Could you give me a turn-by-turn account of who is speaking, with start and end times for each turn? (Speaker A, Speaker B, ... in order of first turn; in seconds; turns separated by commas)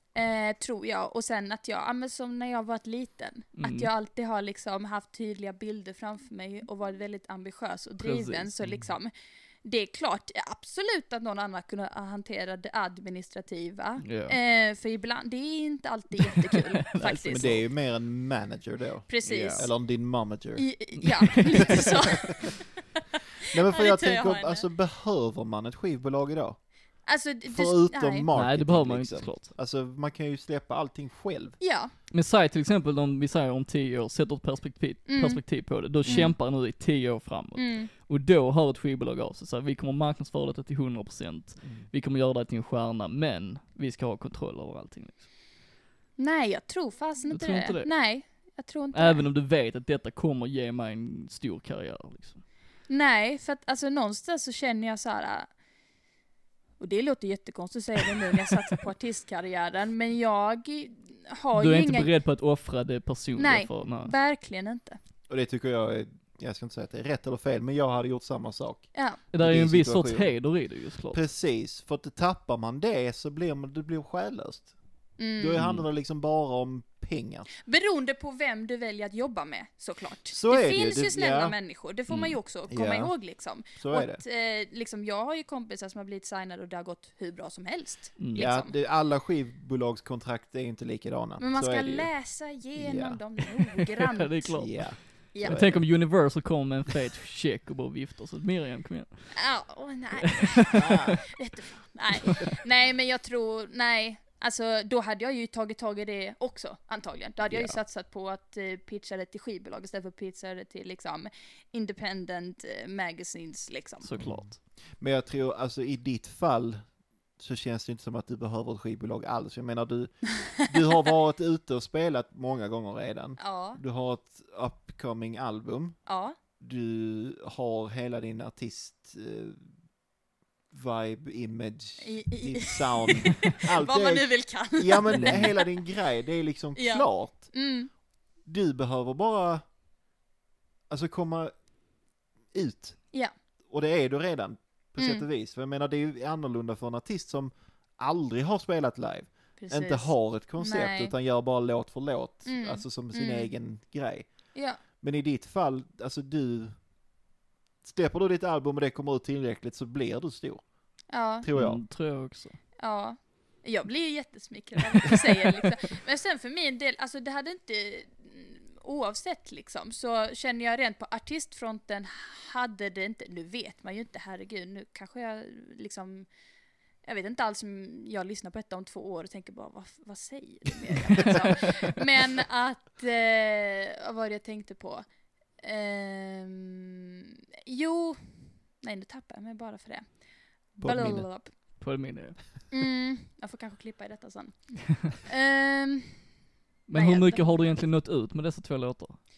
Speaker A: 0.1-9.1, Speaker B: 3.6-3.9, Speaker B: 8.0-8.5, Speaker A: 9.6-17.6, Speaker B: 14.0-14.4, Speaker B: 16.5-17.6, Speaker C: 17.3-22.3, Speaker A: 19.1-19.8, Speaker B: 19.2-19.6, Speaker A: 20.5-22.7, Speaker B: 21.1-21.8, Speaker C: 23.5-26.6, Speaker A: 23.6-24.7, Speaker A: 27.0-28.3, Speaker C: 27.5-31.6, Speaker B: 28.3-29.5, Speaker A: 31.6-31.9, Speaker B: 32.1-45.3, Speaker A: 35.1-35.4, Speaker A: 36.0-36.3, Speaker C: 36.0-36.3, Speaker A: 37.5-37.9, Speaker C: 41.6-41.9, Speaker A: 46.2-49.2, Speaker B: 47.3-48.0, Speaker B: 48.9-52.4, Speaker A: 52.9-55.5, Speaker A: 56.8-62.1, Speaker B: 61.5-64.1, Speaker A: 63.4-65.0, Speaker C: 65.3-70.5, Speaker A: 68.9-69.2, Speaker B: 69.3-71.2, Speaker C: 71.1-74.7, Speaker A: 75.2-75.6, Speaker C: 75.4-77.5, Speaker B: 75.5-75.8, Speaker A: 77.6-88.7, Speaker C: 80.3-81.6, Speaker B: 82.1-82.3, Speaker C: 82.7-83.1, Speaker C: 83.8-84.2, Speaker B: 88.2-88.5, Speaker C: 88.3-92.1, Speaker A: 91.4-94.7, Speaker C: 92.8-93.2, Speaker B: 94.1-99.4, Speaker C: 94.5-95.8, Speaker A: 95.3-95.8, Speaker A: 99.3-114.1, Speaker B: 100.2-101.2, Speaker B: 107.5-107.8, Speaker B: 114.0-114.6, Speaker C: 114.2-116.8, Speaker C: 117.4-126.0, Speaker A: 123.4-123.8, Speaker A: 126.0-126.3, Speaker C: 126.6-129.7, Speaker C: 130.7-137.5, Speaker A: 132.0-135.7, Speaker B: 135.1-135.5, Speaker A: 136.7-137.9, Speaker C: 138.4-139.6, Speaker C: 140.9-141.7, Speaker C: 142.5-143.1, Speaker C: 143.7-156.8, Speaker A: 145.0-145.2, Speaker A: 149.6-151.1, Speaker A: 152.4-153.5, Speaker A: 154.5-154.8, Speaker C: 157.8-160.6, Speaker A: 161.1-161.5, Speaker C: 161.4-161.8, Speaker B: 161.5-162.6, Speaker A: 162.8-176.3, Speaker A: 177.0-185.0, Speaker A: 185.6-190.1, Speaker A: 190.7-191.5, Speaker C: 190.8-191.3, Speaker B: 191.0-191.2, Speaker B: 191.8-192.4, Speaker A: 192.7-196.2, Speaker B: 196.9-199.2, Speaker A: 196.9-197.8